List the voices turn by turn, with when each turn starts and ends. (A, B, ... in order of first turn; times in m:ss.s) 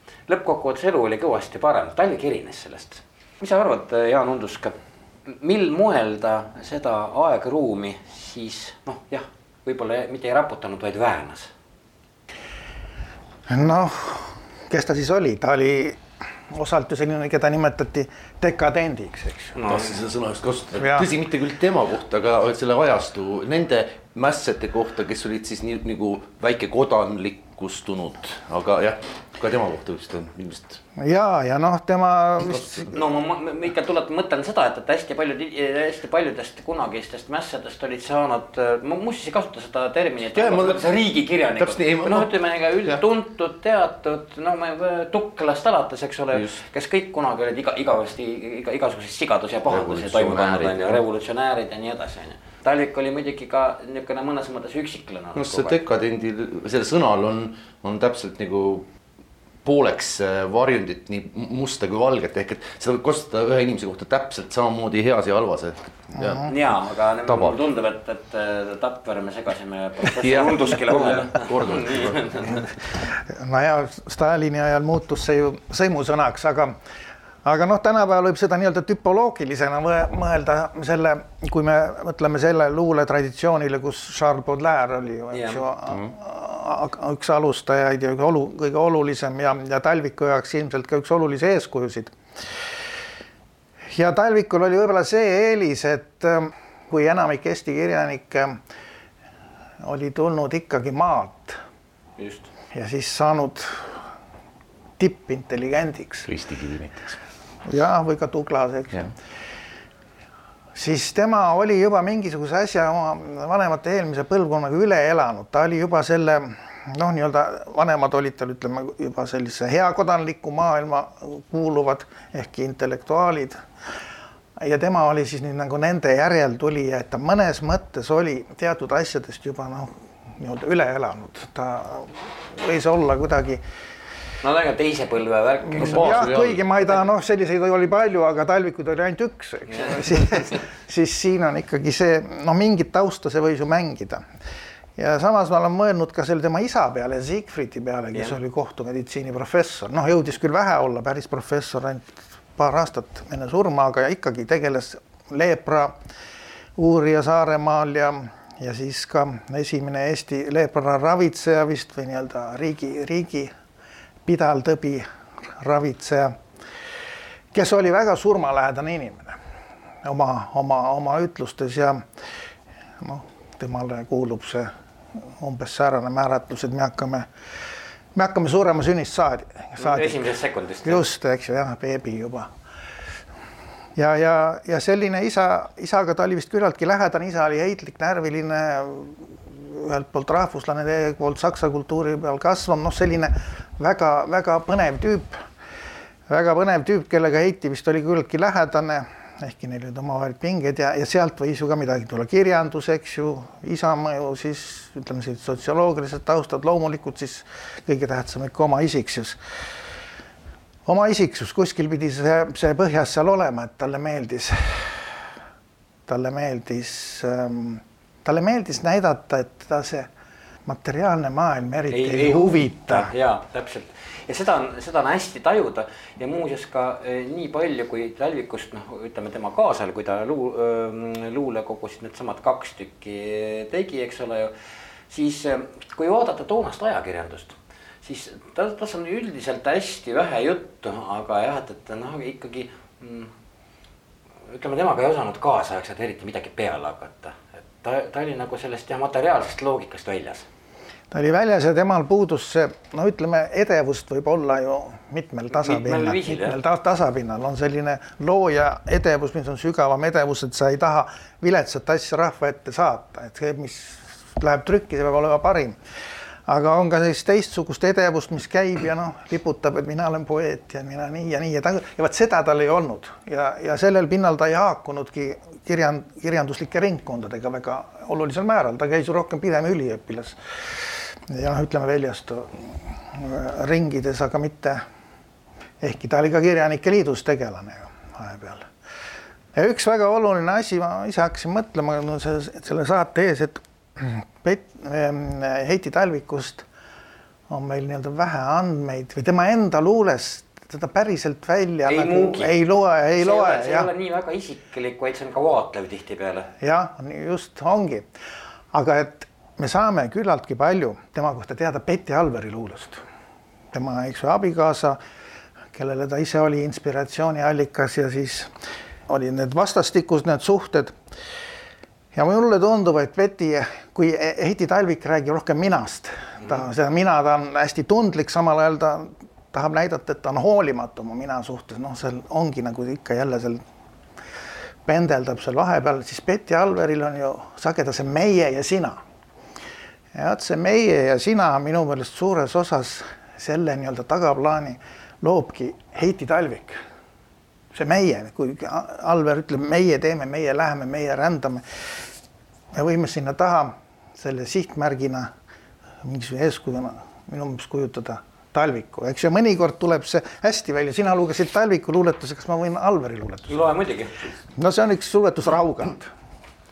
0:00.3-0:04.7 A
0:05.3-0:11.5 A
0:13.5-0:19.6 B
0:19.6-0:19.9 A
0:19.7-0:30.8 C
0:20.8-0:21.1 B
0:31.0-0:32.9 B
0:32.8-0:55.8 A
0:40.3-0:40.8 C
0:41.6-0:42.3 C
0:49.7-0:51.0 C
0:55.4-0:58.8 C
0:59.6-1:06.6 C
1:06.5-1:12.7 A
1:07.2-1:07.6 C
1:10.2-1:12.6 C
1:13.3-1:16.8 B
1:17.4-1:32.2 B
1:25.3-1:25.7 A
1:33.9-1:38.6 B
1:39.8-1:41.6 B
1:42.2-1:42.5 A
1:42.7-1:43.9 B
1:45.0-1:46.3 B
1:46.3-1:47.2 C
1:47.7-1:49.0 B
1:50.8-2:03.6 B
2:04.6-2:13.6 B
2:14.4-2:16.3 A
2:15.7-2:24.2 B
2:15.8-2:16.6 C
2:25.0-2:36.0 B
2:36.8-2:43.5 B
2:44.3-2:45.0 B
2:45.6-2:46.4 B
2:47.5-2:49.4 B
2:50.0-2:52.0 B
2:53.0-2:54.7 B
2:55.4-2:57.3 B
2:58.2-3:00.2 B
2:59.8-3:01.0 A
3:00.8-3:02.5 B
3:04.0-3:15.4 B
3:16.3-3:29.4 B
3:30.9-3:35.2 B
3:36.1-3:40.1 B
3:40.7-3:43.1 B
3:41.9-3:54.5 A
3:55.1-4:03.3 A
4:04.5-4:10.5 A
4:11.1-4:25.8 B
4:15.5-4:16.6 A
4:26.5-4:44.8 B
4:45.8-4:48.7 B
4:49.6-4:56.7 B
4:57.5-5:03.9 B
5:01.9-5:02.6 A
5:03.2-5:06.5 A
5:06.6-5:08.1 B
5:08.7-5:13.0 B
5:13.7-5:15.0 B
5:15.8-5:18.5 B
5:19.1-5:20.9 B
5:22.1-5:33.6 B
5:34.9-5:39.0 B
5:40.1-5:46.8 B
5:47.7-5:51.6 B
5:52.7-5:55.3 B
5:56.0-6:03.7 B
6:03.5-6:04.3 A
6:04.6-6:06.1 B